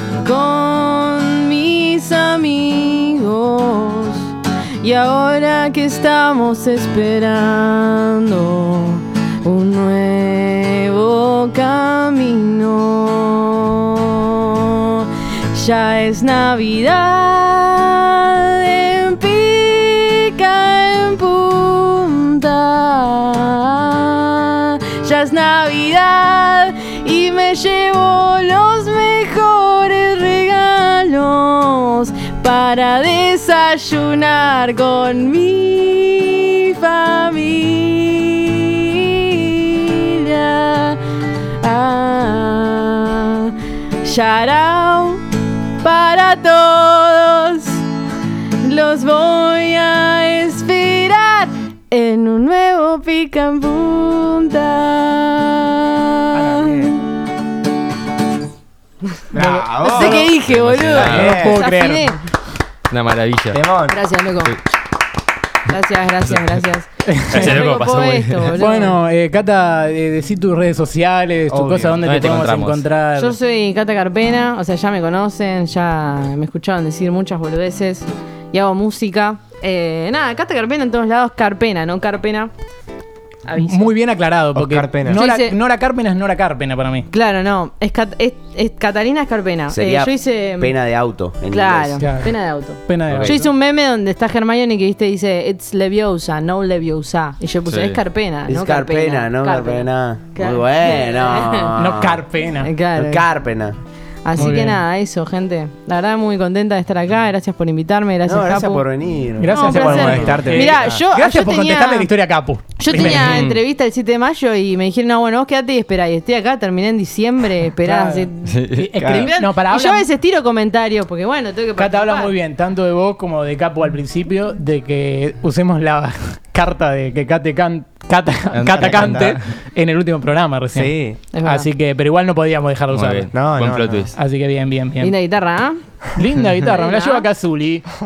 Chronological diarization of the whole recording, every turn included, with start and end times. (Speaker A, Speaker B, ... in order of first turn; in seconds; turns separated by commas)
Speaker A: 0.2-41.0, Speaker A: 41.6-45.2, Speaker A: 45.8-47.8, Speaker A: 48.6-57.0, Speaker B: 56.3-56.9, Speaker B: 59.3-60.3, Speaker C: 59.4-60.1, Speaker A: 59.8-62.2, Speaker D: 60.0-61.4, Speaker B: 60.9-61.6, Speaker C: 61.0-62.1, Speaker D: 62.9-63.6, Speaker B: 63.5-64.0, Speaker A: 63.9-64.6, Speaker A: 65.7-69.0, Speaker C: 67.1-67.6, Speaker D: 67.3-68.6, Speaker C: 68.5-73.3, Speaker B: 71.5-72.3, Speaker D: 72.0-72.8, Speaker A: 73.2-82.5, Speaker A: 83.5-83.9, Speaker C: 83.6-87.1, Speaker B: 84.5-85.2, Speaker A: 85.1-85.6, Speaker A: 87.1-90.7, Speaker E: 89.7-92.0, Speaker A: 91.5-101.7, Speaker C: 92.0-93.5, Speaker E: 93.1-93.4, Speaker D: 97.7-98.0, Speaker E: 98.5-102.2, Speaker C: 101.8-102.7, Speaker A: 102.6-103.2, Speaker E: 103.0-103.8, Speaker A: 104.2-108.8, Speaker C: 104.4-104.8, Speaker E: 108.2-109.6, Speaker C: 109.4-113.6, Speaker A: 109.5-112.1, Speaker B: 109.6-111.1, Speaker A: 112.8-122.3, Speaker C: 117.8-120.1, Speaker D: 118.5-118.9, Speaker B: 119.0-119.3, Speaker C: 121.8-133.4, Speaker D: 128.5-129.4, Speaker B: 128.7-129.3, Speaker B: 130.7-131.3, Speaker A: 131.3-131.7, Speaker D: 132.9-134.1, Speaker B: 133.3-134.1, Speaker C: 134.1-135.1, Speaker A: 135.0-135.8, Speaker C: 136.2-137.9, Speaker A: 136.6-137.3